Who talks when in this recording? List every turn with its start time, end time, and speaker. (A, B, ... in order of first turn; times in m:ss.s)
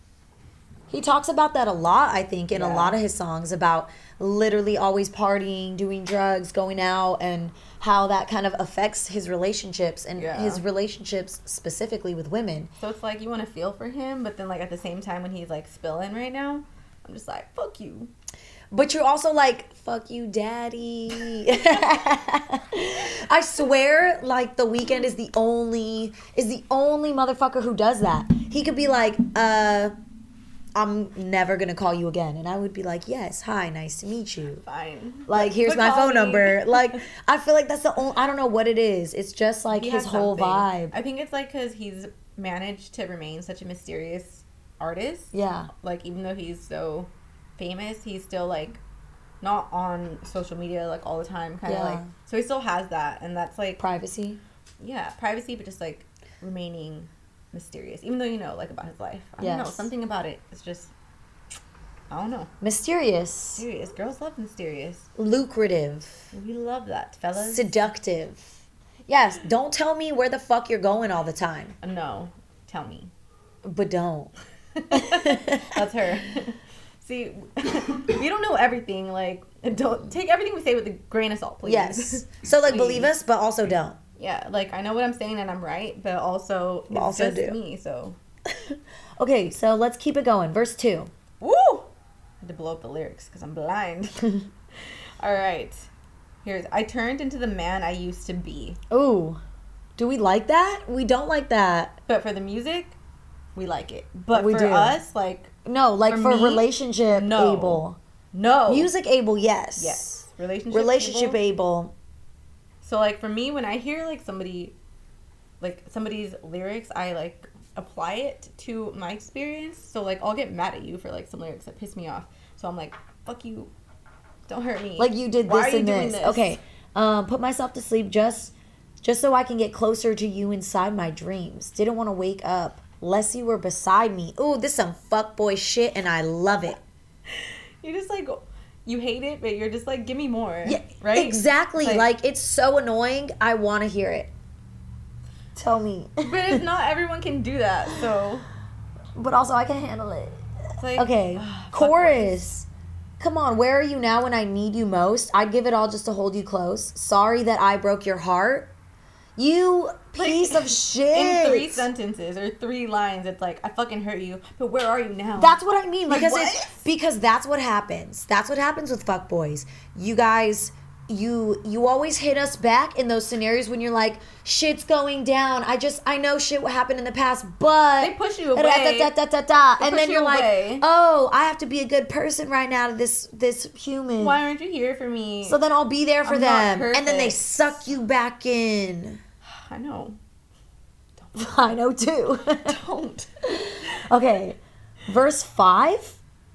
0:00.9-0:12.7 A
0:02.5-0:03.0 B
0:10.2-0:10.6 B
0:12.8-0:18.1 B
0:18.7-0:29.9 A
0:30.8-0:34.6 A
0:34.6-0:37.0 B
0:35.3-0:41.0 A
0:39.7-0:48.8 B
0:45.3-0:45.7 A
0:49.4-0:53.8 B
0:51.6-0:52.1 A
0:53.8-0:54.4 A
0:54.8-1:00.9 B
0:59.4-0:59.9 A
1:02.1-1:02.5 B
1:02.6-1:03.6 A
1:03.6-1:05.1 B
1:05.2-1:06.3 A
1:06.3-1:07.9 B
1:07.4-1:11.8 A
1:11.8-1:13.1 B
1:13.6-1:14.3 A
1:14.8-1:23.2 B
1:14.9-1:15.7 A
1:21.6-1:24.0 A
1:24.2-1:28.2 B
1:26.9-1:27.6 A
1:28.5-1:31.1 A
1:31.4-1:31.9 B
1:32.4-1:34.4 B
1:35.2-1:35.9 B
1:36.4-1:38.8 B
1:38.9-1:39.4 A
1:40.0-1:42.0 A
1:42.1-1:43.0 B
1:43.6-1:45.5 B
1:44.3-1:45.0 A
1:45.7-1:48.0 A
1:46.1-1:48.9 B
1:48.7-1:52.0 A
1:49.8-1:51.4 B
1:52.8-1:54.8 B
1:55.6-2:03.7 B
2:04.5-2:06.6 B
2:05.0-2:16.8 A
2:17.3-2:22.1 B
2:20.6-2:24.3 A
2:25.6-2:26.6 A
2:26.2-2:28.5 B
2:29.2-2:30.4 A
2:30.8-2:32.4 B
2:31.0-2:32.7 A
2:33.2-2:38.7 A
2:39.4-2:41.9 A
2:40.2-2:46.8 B
2:45.4-3:04.4 A
2:58.0-2:59.2 B
2:59.8-3:00.8 B
3:04.2-3:05.6 B
3:05.4-3:09.2 A
3:06.2-3:07.8 B
3:09.4-3:10.2 B
3:11.2-3:11.5 B
3:11.4-3:12.8 A
3:12.6-3:13.3 B
3:13.5-3:16.2 A